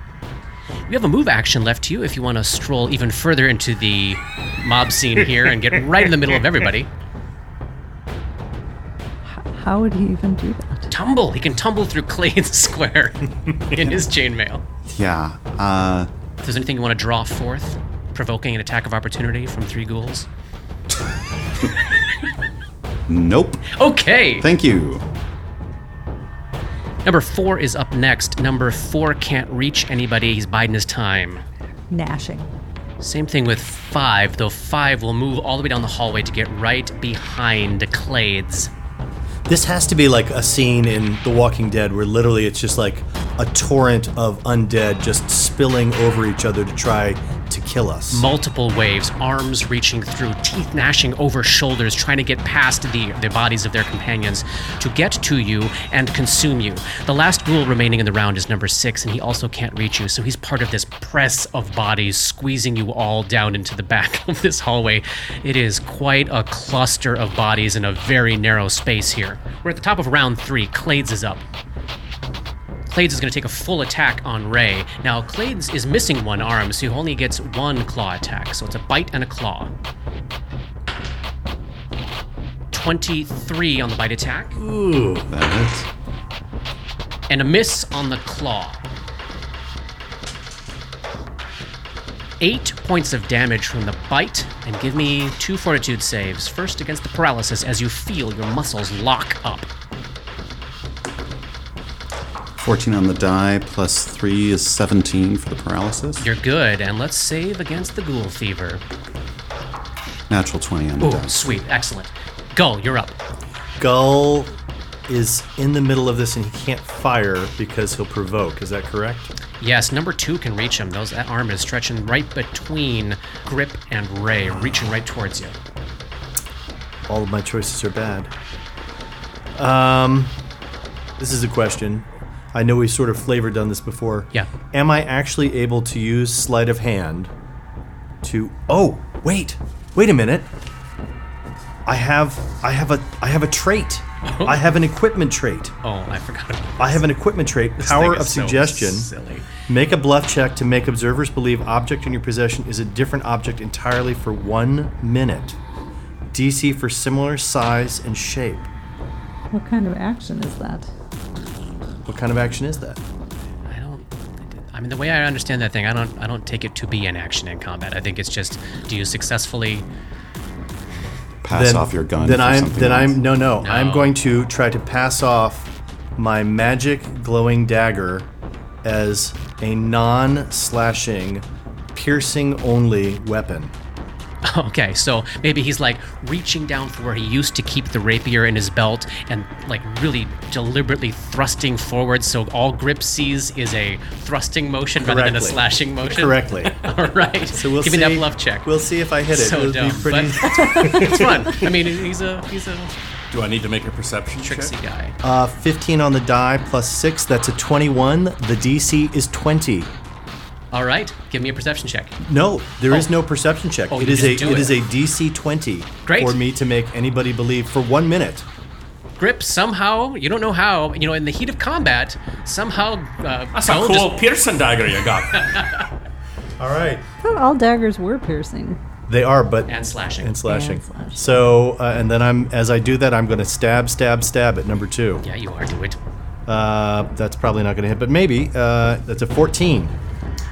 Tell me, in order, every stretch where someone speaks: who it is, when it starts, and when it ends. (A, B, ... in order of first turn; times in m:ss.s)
0:00.9-0:06.9 A
0:09.3-0:10.9 B
0:10.9-0:14.6 A
0:14.9-0:16.1 C
0:16.4-0:20.3 A
0:23.1-0:23.7 C
0:23.7-0:24.5 A
0:24.4-0:25.0 C
0:27.0-0:31.4 A
0:31.9-0:32.5 B
0:33.0-0:38.7 A
0:39.5-0:48.3 D
0:48.1-1:11.4 A
1:12.9-1:19.7 A
1:22.7-1:24.6 A
1:24.6-1:25.3 D
1:25.2-1:25.9 C
1:27.3-1:28.8 A
1:32.4-1:39.7 A
1:42.6-1:46.3 C
1:46.2-1:48.8 A
1:50.3-1:51.3 C
1:51.0-1:53.2 A
1:53.8-1:59.3 D
1:59.6-2:05.6 A
2:07.1-2:08.3 D
2:09.5-2:10.3 D
2:11.2-2:17.3 D
2:18.2-2:20.5 D
2:21.8-2:25.7 D
2:24.2-2:24.6 A
2:25.8-2:27.0 A
2:26.8-2:29.1 D
2:27.8-2:29.5 A
2:29.7-2:35.6 D
2:36.3-2:38.7 D
2:39.5-2:40.9 B
2:42.0-2:43.0 D
2:43.7-2:49.9 A
2:51.4-2:53.2 C
2:51.5-2:58.3 D
2:53.6-2:54.1 A
2:58.8-3:03.7 D
3:04.4-3:18.7 A
3:15.0-3:16.8 D
3:17.5-3:21.5 D
3:19.3-3:22.9 A
3:23.3-3:24.7 E
3:24.4-3:25.2 A
3:25.2-3:29.9 D
3:30.7-3:32.2 A
3:32.2-3:38.4 D
3:33.9-3:34.8 A
3:36.0-3:36.4 A
3:39.2-3:44.2 A
3:43.5-3:45.6 E
3:45.3-3:45.8 A
3:46.6-3:47.0 D
3:47.2-3:48.8 B
3:49.1-3:55.2 D
3:49.7-3:50.4 A
3:50.4-3:51.4 B
3:55.2-3:56.0 A
3:56.4-3:59.9 D